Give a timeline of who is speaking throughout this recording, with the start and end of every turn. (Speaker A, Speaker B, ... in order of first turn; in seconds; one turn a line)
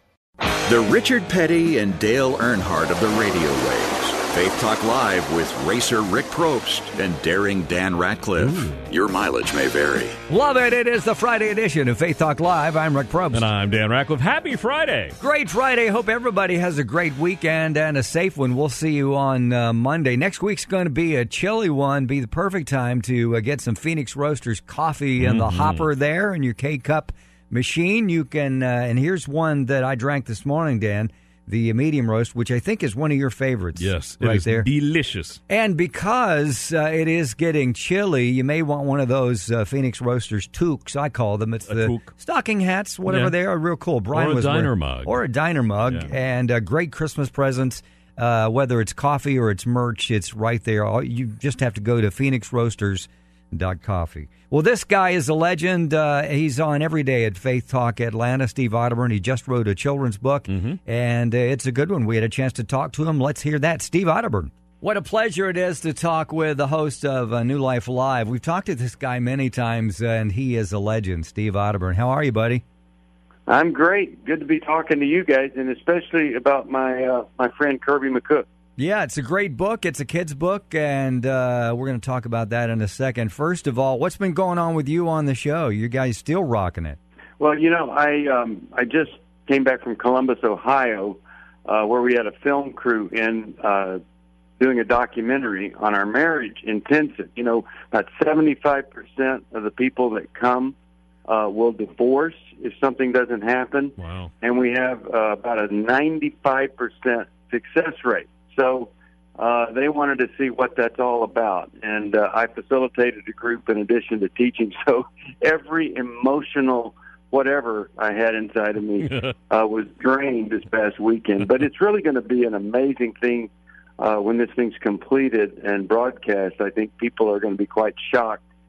Speaker A: 0.7-10.2
Speaker B: 8.4-8.7
Speaker C: 10.3-13.5
Speaker B: 13.3-15.1
Speaker C: 15.2-34.7
Speaker B: 25.2-25.8
Speaker B: 33.8-35.4
Speaker C: 35.5-72.6
Speaker B: 41.7-42.1
Speaker B: 43.1-43.3
Speaker B: 44.1-45.2
Speaker B: 60.5-60.8
Speaker D: 73.5-78.5
Speaker C: 78.8-87.0
Speaker D: 87.4-94.0
Speaker D: 94.6-100.8
Speaker D: 101.3-128.4
Speaker B: 104.0-104.3